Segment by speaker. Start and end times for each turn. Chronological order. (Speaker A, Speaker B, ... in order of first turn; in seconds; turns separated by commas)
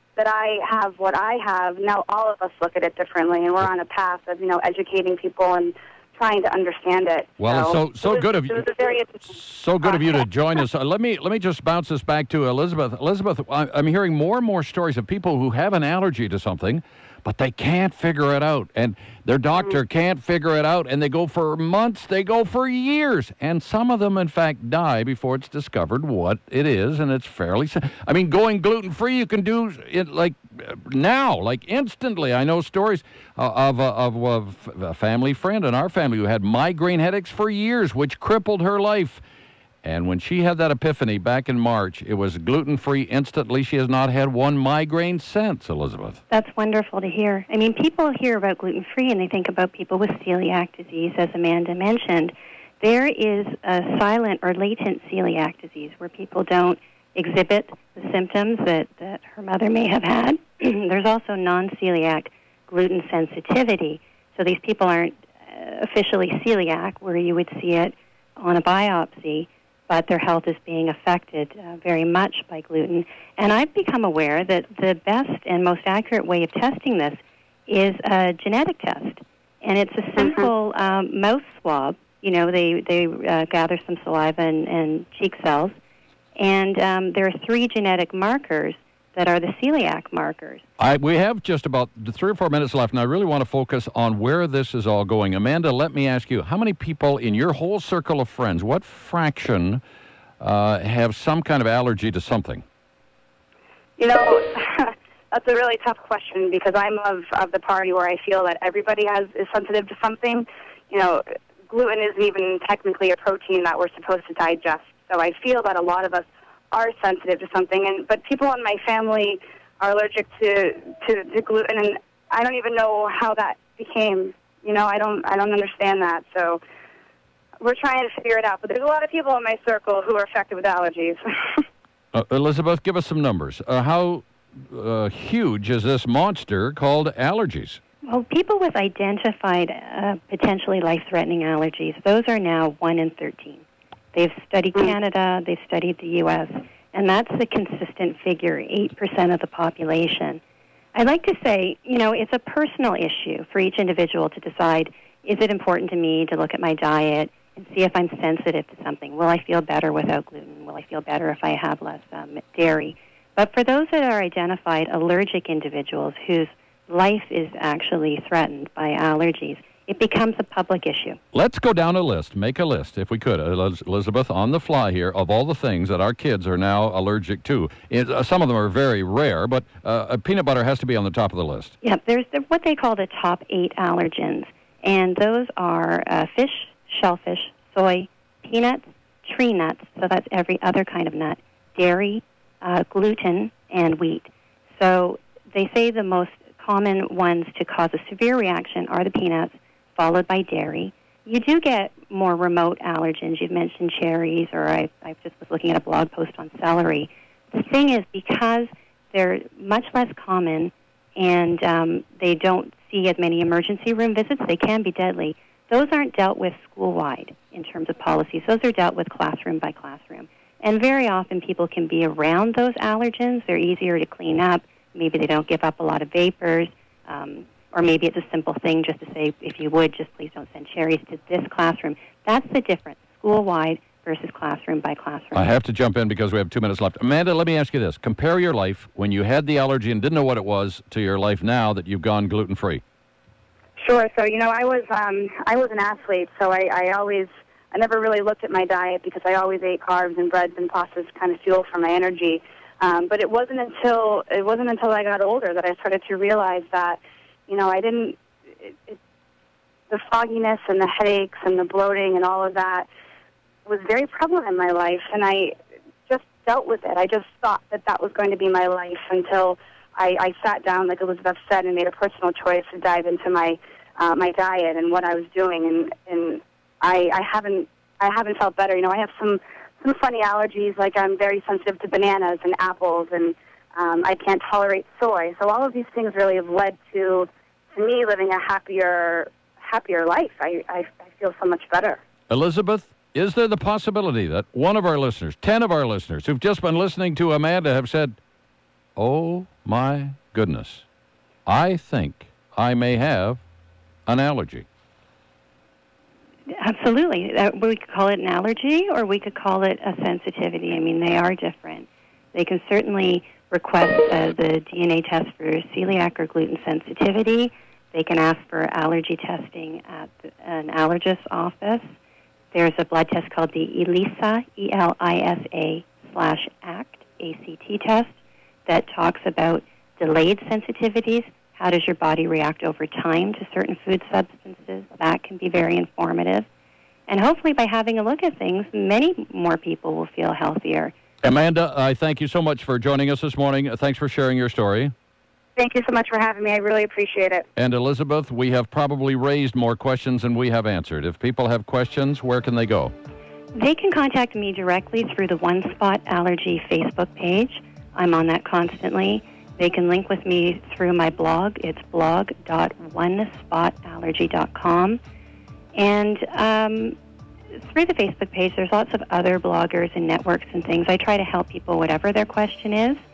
Speaker A: 0.2-9.2, Speaker B: 7.4-8.7, Speaker B: 9.2-39.2, Speaker A: 9.8-10.1, Speaker B: 39.8-46.2, Speaker C: 46.3-85.7, Speaker C: 86.4-90.6, Speaker B: 90.8-99.8, Speaker B: 100.4-102.6, Speaker A: 104.0-126.6, Speaker A: 127.6-131.7, Speaker B: 132.1-137.8, Speaker C: 138.1-150.4, Speaker C: 150.9-171.2, Speaker B: 171.3-181.7, Speaker C: 181.8-235.5, Speaker B: 235.3-242.8, Speaker A: 243.8-259.0, Speaker A: 259.9-262.9, Speaker A: 263.7-265.5, Speaker A: 266.1-292.0, Speaker B: 292.3-298.2, Speaker B: 299.0-300.9, Speaker B: 301.5-303.4, Speaker B: 304.1-304.7, Speaker C: 306.6-321.8, Speaker C: 322.5-328.1, Speaker C: 328.7-336.5, Speaker C: 337.1-340.9, Speaker B: 341.2-344.9, Speaker A: 345.6-347.4, Speaker B: 347.6-352.9, Speaker C: 353.6-365.0, Speaker C: 365.8-367.0, Speaker C: 367.7-373.0